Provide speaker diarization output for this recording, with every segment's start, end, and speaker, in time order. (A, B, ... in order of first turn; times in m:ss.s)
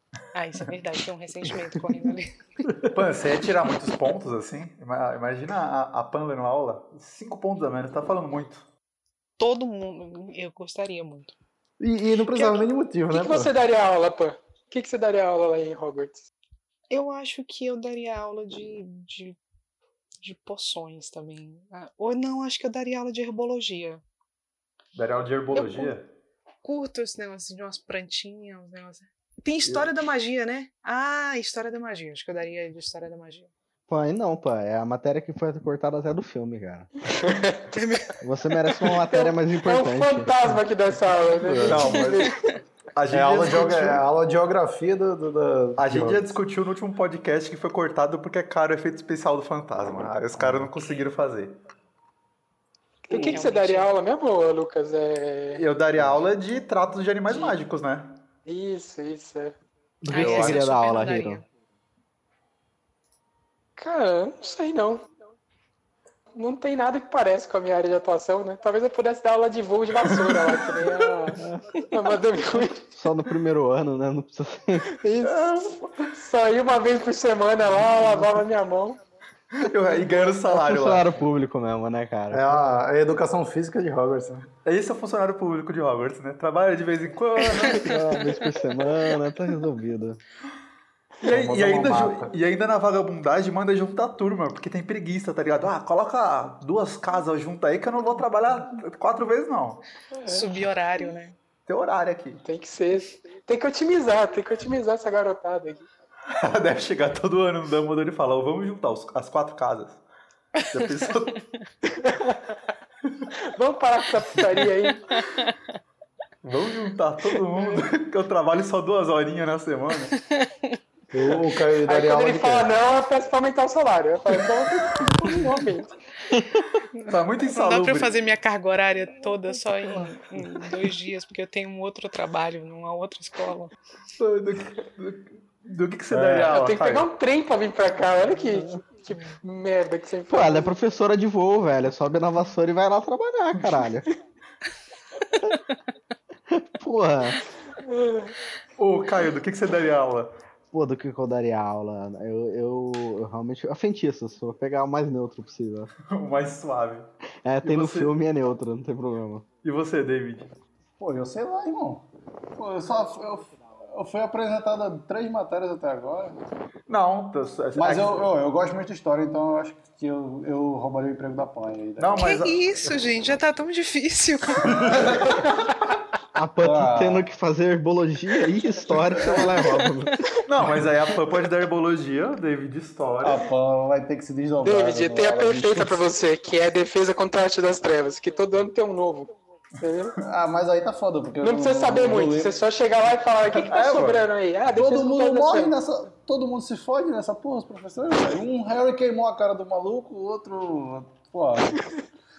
0:00.3-0:02.3 A
0:02.9-0:08.7 B
0:09.4-0:11.4 A
0:11.8-0:13.5 C
0:12.4-0:12.6 A
0:13.1-0:16.3 D
0:16.9-0:19.4 A
0:20.2-0:24.0 A
0:25.0-0:26.1 B
0:25.5-0:26.0 A
0:26.6-0:33.5 A
0:33.9-0:36.9 E
0:37.1-0:37.6 D
0:37.7-0:38.2 A
0:38.2-0:40.6 E
0:38.8-0:42.4 D
0:41.4-0:42.0 E
0:41.6-0:42.3 B
0:41.9-0:42.5 A
0:43.0-0:44.0 B
0:43.1-0:46.3 C
0:45.8-0:51.6 B
0:50.3-0:50.7 C
0:53.0-0:55.7 D
0:53.1-0:54.0 A
0:55.6-0:58.2 B
0:56.0-0:56.2 E
0:57.3-0:57.6 D
0:58.5-0:59.6 D
1:00.0-1:01.4 E
1:00.1-1:00.6 B
1:00.1-1:01.4 A
1:03.8-1:05.0 D
1:06.4-1:12.8 D
1:11.4-1:11.7 E
1:12.9-1:14.9 E
1:15.0-1:19.0 D
1:15.2-1:16.2 B
1:19.5-1:21.2 B
1:20.4-1:22.8 E
1:22.3-1:24.5 C
1:24.6-1:28.3 B
1:27.6-1:30.2 E
1:31.2-1:39.8 B
1:31.3-1:32.3 C
1:40.1-1:41.1 D
1:40.3-1:41.4 A
1:41.7-1:42.4 B
1:42.4-1:45.9 D
1:46.3-1:50.0 B
1:50.6-1:51.4 A
1:50.7-1:51.4 B
1:52.0-1:52.5 D
1:53.5-1:55.1 D
1:55.1-1:55.6 A
1:56.4-2:00.1 B
2:00.1-2:00.7 A
2:01.1-2:02.7 C
2:01.8-2:06.0 D
2:07.0-2:13.7 A
2:07.1-2:08.2 B
2:14.2-2:17.1 B
2:16.1-2:16.5 C
2:16.4-2:20.7 D
2:20.3-2:24.1 E
2:26.5-2:27.4 E
2:27.8-2:28.4 D
2:28.8-2:30.3 B
2:30.7-2:35.9 E
2:36.1-2:37.1 B
2:37.4-2:39.5 E
2:37.6-2:38.1 B
2:39.6-2:40.5 B
2:41.0-2:42.0 C
2:42.6-2:46.4 C
2:46.9-2:48.3 B
2:47.7-2:52.4 C
2:52.0-2:53.0 B
2:52.2-2:54.7 A
2:54.7-2:55.5 C
2:56.4-3:00.2 E
2:56.6-2:57.2 C
2:58.9-2:59.6 C
3:00.5-3:03.5 B
3:03.2-3:06.0 C
3:04.6-3:10.2 D
3:10.2-3:12.6 C
3:11.4-3:15.8 D
3:13.5-3:14.2 C
3:13.8-3:14.2 B
3:14.7-3:21.8 C